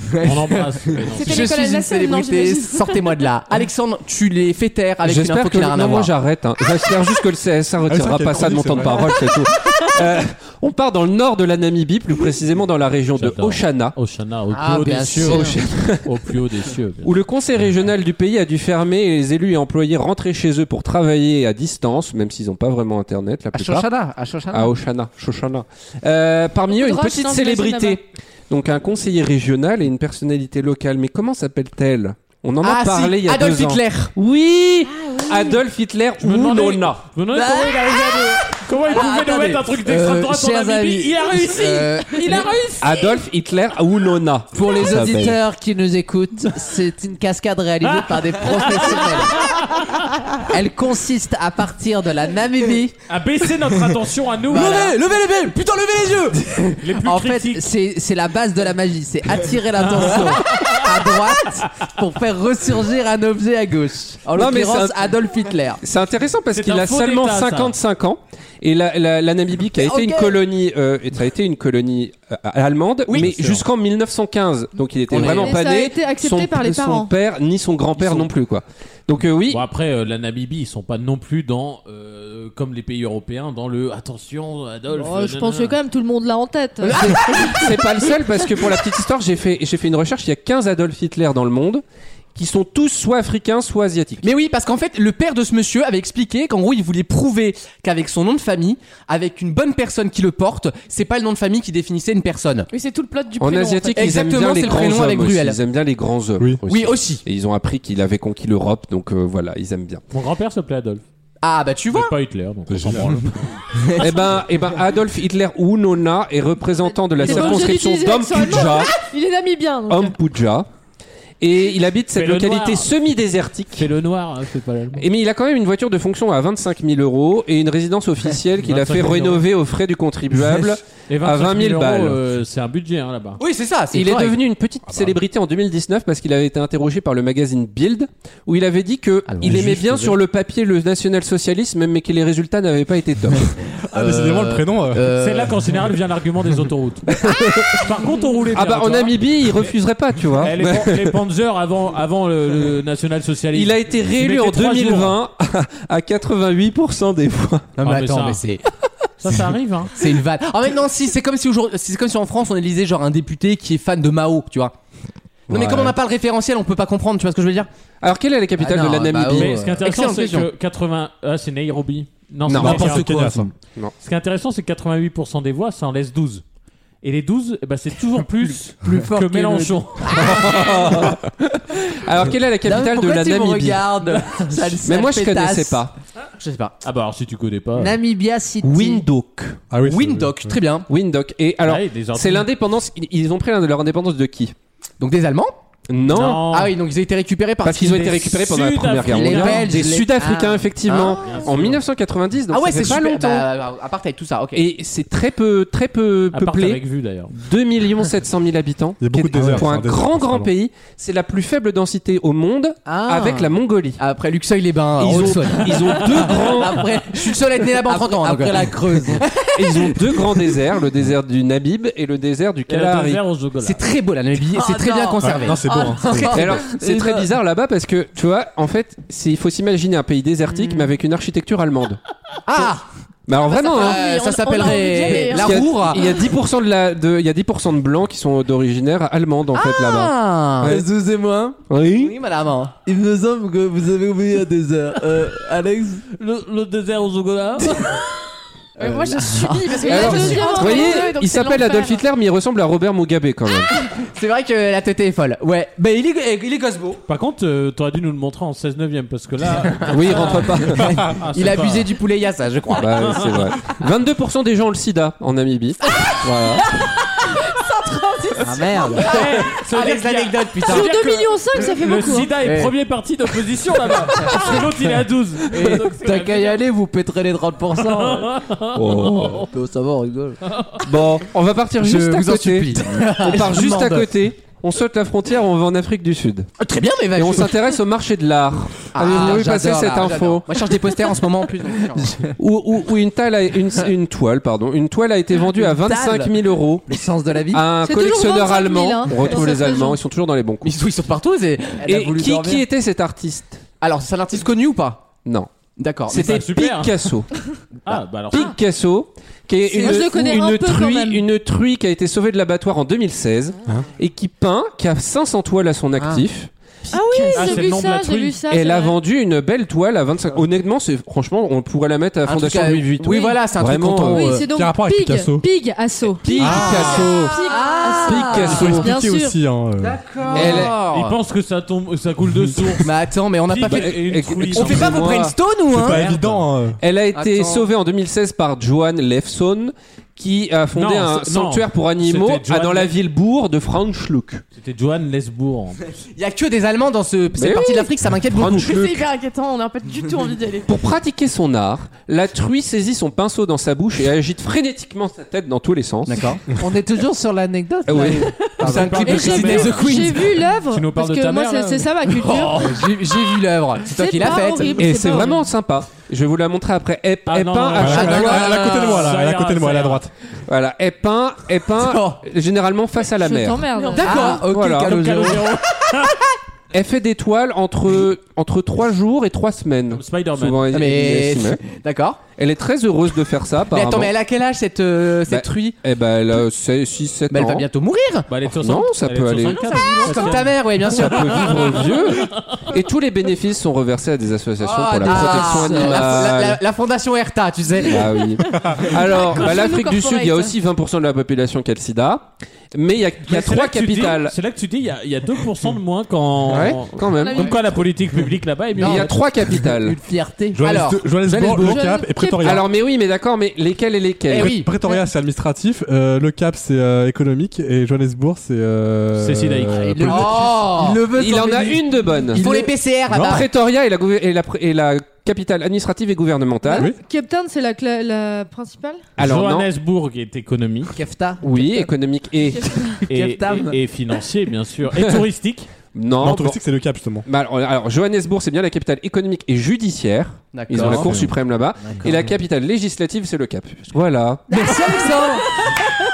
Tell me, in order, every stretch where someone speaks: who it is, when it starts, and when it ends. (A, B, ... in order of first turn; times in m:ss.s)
0:00.2-0:01.6 A
0:01.1-0:03.2 B
0:01.2-0:06.1 C
0:05.0-0:14.0 D
0:07.9-0:09.2 E
0:13.2-0:17.1 A
0:14.5-0:15.6 F
0:15.2-0:16.1 D
0:17.0-0:23.9 D
0:23.5-0:24.7 F
0:24.5-0:37.0 D
0:26.7-0:28.0 B
0:32.6-0:34.1 C
0:35.1-0:35.5 B
0:36.2-0:42.5 A
0:37.3-0:38.3 F
0:38.9-0:39.9 C
0:39.9-0:42.5 F
0:42.1-0:43.2 B
0:42.8-0:45.4 D
0:44.5-0:49.9 F
0:47.8-0:49.8 A
0:50.4-0:53.0 F
0:53.1-0:54.9 A
0:54.5-0:56.8 C
0:54.5-0:55.0 F
0:56.8-0:57.7 A
0:57.0-1:05.8 F
0:59.9-1:01.2 A
1:04.3-1:05.2 D
1:05.8-1:19.6 D
1:06.5-1:07.8 A
1:09.8-1:10.4 C
1:13.1-1:13.6 C
1:15.1-1:15.5 C
1:15.2-1:17.1 G
1:19.5-1:25.8 A
1:24.9-1:27.0 G
1:26.8-1:28.6 C
1:26.9-1:31.8 D
1:32.4-1:34.3 D
1:34.2-1:42.7 C
1:42.7-1:44.8 B
1:43.4-1:50.0 D
1:44.0-1:45.6 C
1:46.7-1:47.2 C
1:50.1-1:51.0 A
1:51.4-1:52.1 C
1:51.9-1:53.6 A
1:52.7-1:53.4 E
1:54.0-1:58.9 D
1:57.2-1:57.7 A
1:57.2-2:00.2 G
1:59.9-2:00.7 D
2:01.4-2:03.9 D
2:02.2-2:02.9 A
2:03.8-2:05.1 A
2:05.0-2:12.2 D
2:08.6-2:09.4 A
2:11.1-2:13.4 A
2:13.4-2:14.4 C
2:13.9-2:23.5 D
2:14.9-2:15.2 E
2:19.3-2:20.2 C
2:23.9-2:25.1 E
2:23.9-2:25.6 C
2:25.2-2:29.7 A
2:27.2-2:27.9 D
2:28.5-2:31.2 D
2:30.3-2:35.2 A
2:33.5-2:37.7 D
2:37.8-2:38.7 C
2:37.8-2:38.4 A
2:39.2-2:39.9 A
2:40.0-2:44.7 C
2:45.5-2:46.0 D
2:45.5-2:47.7 C
2:48.0-2:49.6 D
2:48.6-2:49.8 F
2:49.3-2:53.1 A
2:49.8-2:50.5 C
2:52.5-2:52.9 D
2:52.6-2:53.5 E
2:52.6-2:53.5 C
2:54.0-2:56.4 A
2:57.0-3:00.8 A
2:58.2-3:00.5 F
3:00.2-3:04.1 D
3:02.6-3:05.8 F
3:04.8-3:05.9 D
3:06.4-3:06.8 C
3:06.8-3:08.0 A
3:07.8-3:09.0 F
3:08.6-3:09.6 D
3:09.7-3:10.6 E
3:09.8-3:10.9 C
3:10.9-3:14.6 D
3:11.6-3:12.5 A
3:15.0-3:15.5 C
3:15.9-3:16.5 D
3:16.1-3:16.8 A
3:16.4-3:18.2 C
3:17.6-3:23.5 D
3:18.0-3:19.8 A
3:19.0-3:20.7 F
3:20.8-3:21.5 C
3:21.1-3:21.8 A
3:22.5-3:24.7 C
3:24.5-3:26.8 D
3:26.3-3:27.3 A
3:27.3-3:34.0 D
3:29.0-3:30.5 E
3:32.8-3:33.5 F
3:34.0-3:40.3 C
3:35.0-3:36.8 D
3:35.8-3:39.3 F
3:39.6-3:43.2 D
3:42.7-3:43.9 A
3:43.6-3:46.6 C
3:44.5-3:47.3 F
3:45.2-3:46.4 E
3:46.3-3:52.0 D
3:52.4-3:52.8 C
3:53.3-3:54.0 D
3:53.4-3:56.0 B
3:53.7-3:56.1 C
3:55.2-4:00.8 D
3:59.5-4:00.8 C
4:00.6-4:01.6 F
4:01.7-4:02.1 D
4:01.9-4:02.8 C
4:02.9-4:06.0 F
4:06.1-4:08.2 A
4:08.8-4:10.4 C
4:08.8-4:12.0 B
4:09.8-4:11.2 G
4:09.9-4:13.7 D
4:14.0-4:17.0 C
4:17.1-4:21.9 A
4:19.8-4:21.0 D
4:21.3-4:23.4 C
4:22.7-4:26.6 D
4:27.6-4:30.9 C
4:28.4-4:29.2 F
4:28.9-4:36.6 A
4:30.7-4:32.3 G
4:35.5-4:38.3 F
4:37.8-4:39.4 A
4:38.7-4:39.5 D
4:39.4-4:40.4 F
4:40.5-4:40.8 A
4:40.8-4:46.5 D
4:41.8-4:44.1 C
4:43.0-4:43.9 F
4:46.6-4:47.8 C
4:47.2-4:50.6 D
4:48.9-4:52.2 C
4:52.4-5:00.8 D
4:55.6-4:57.7 F
4:57.8-5:00.0 G
5:00.6-5:02.4 C
5:01.8-5:03.6 D
5:01.9-5:02.6 F
5:03.8-5:05.1 C
5:05.2-5:05.5 D
5:05.8-5:06.5 C
5:06.1-5:07.3 D
5:06.1-5:07.0 A
5:07.9-5:08.5 A
5:08.3-5:16.5 D
5:09.7-5:10.1 C
5:09.8-5:11.2 G
5:16.0-5:16.2 C
5:16.8-5:17.6 C
5:16.9-5:19.0 G
5:17.3-5:18.4 A
5:18.5-5:24.3 D
5:22.3-5:24.5 C
5:24.1-5:29.4 G
5:24.4-5:25.5 E
5:26.2-5:28.9 C
5:26.3-5:28.9 D
5:26.4-5:27.0 E
5:27.9-5:28.4 B
5:28.5-5:30.0 E
5:29.8-5:30.7 F
5:30.1-5:31.2 C
5:30.3-5:30.8 D
5:30.4-5:33.0 A
5:32.8-5:36.1 C
5:33.5-5:35.1 A
5:33.6-5:35.4 D
5:35.7-5:36.8 E
5:35.8-5:36.5 A
5:36.8-5:44.4 D
5:37.2-5:37.6 C
5:40.8-5:43.0 A
5:44.5-5:45.9 A
5:46.2-5:48.9 C
5:47.3-5:49.0 D
5:48.6-5:50.8 B
5:50.7-5:56.3 D
5:56.1-5:56.4 C
5:56.5-5:59.0 F
5:57.9-5:59.9 D
5:58.6-6:00.4 C
5:59.0-6:02.7 G
5:59.1-5:59.9 A
6:00.7-6:03.1 A
6:02.3-6:05.0 C
6:03.9-6:05.5 G
6:04.2-6:08.6 D
6:07.3-6:10.0 A
6:07.8-6:10.1 E
6:07.8-6:09.2 C
6:10.5-6:13.7 D
6:11.8-6:12.2 C
6:13.1-6:14.4 G
6:13.8-6:14.4 B
6:14.0-6:16.2 C
6:14.5-6:15.0 D
6:14.7-6:15.3 F
6:14.7-6:16.2 A
6:16.7-6:21.6 D
6:19.9-6:20.7 A
6:20.7-6:22.2 C
6:22.4-6:24.1 D
6:23.7-6:25.8 C
6:25.3-6:27.7 D
6:27.3-6:28.3 C
6:28.3-6:32.7 A
6:28.5-6:29.9 D
6:30.0-6:31.8 C
6:30.8-6:36.6 D
6:34.6-6:38.3 C
6:35.1-6:36.0 F
6:37.8-6:44.4 D
6:38.8-6:39.4 C
6:39.0-6:40.5 B
6:43.3-6:49.2 A
6:46.5-6:47.6 D
6:46.5-6:46.8 C
6:47.1-6:47.6 B
6:48.8-6:50.0 D
6:49.6-6:50.8 F
6:50.6-6:52.7 E
6:50.6-6:51.9 C
6:51.5-6:52.6 G
6:52.4-6:54.6 D
6:54.3-6:54.7 C
6:54.3-7:00.2 E
6:54.8-6:55.1 G
6:59.2-7:00.3 A
6:59.8-7:02.7 F
7:00.1-7:01.0 C
7:01.1-7:02.5 D
7:02.3-7:03.5 C
7:03.1-7:06.9 D
7:06.7-7:09.0 G
7:09.2-7:09.7 D
7:09.2-7:11.0 A
7:10.9-7:11.9 F
7:11.4-7:12.7 D
7:13.1-7:15.7 A
7:13.1-7:13.8 F
7:15.0-7:15.2 D
7:15.9-7:16.6 D
7:16.2-7:17.2 E
7:17.3-7:24.4 D
7:20.5-7:21.2 C
7:20.8-7:21.3 E
7:21.8-7:22.1 F
7:24.5-7:25.5 F
7:24.5-7:25.6 C